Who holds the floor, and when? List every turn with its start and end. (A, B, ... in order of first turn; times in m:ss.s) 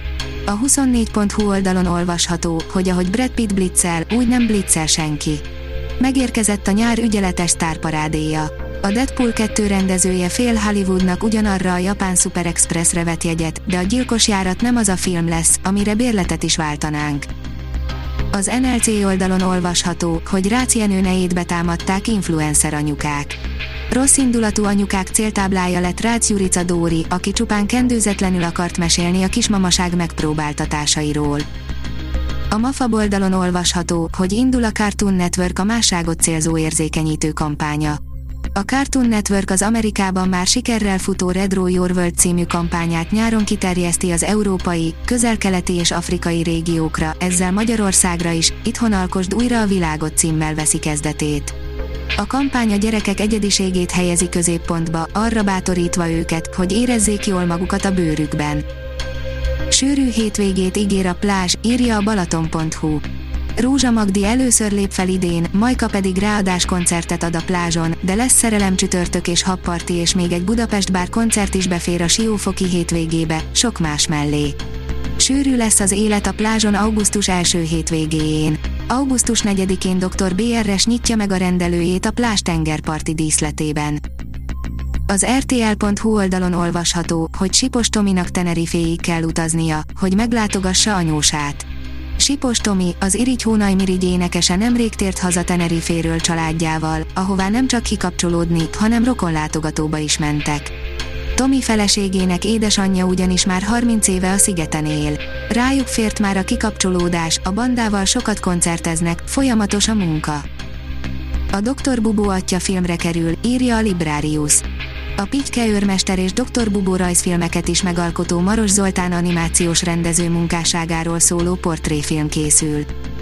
0:00.5-0:05.4 A
0:06.0-0:17.3 A
0:18.3-0:23.4 A
0:23.9-0:31.4 A
0:32.5-0:38.0 A
0:38.5-0:51.5 A
0:52.2-0:58.6 A
0:59.7-1:03.0 A
1:03.6-1:14.6 A
1:15.2-1:24.0 A
1:25.1-1:31.6 A
1:32.2-1:40.7 A
1:41.4-1:50.4 A
1:51.5-1:54.6 A
1:55.2-2:02.9 A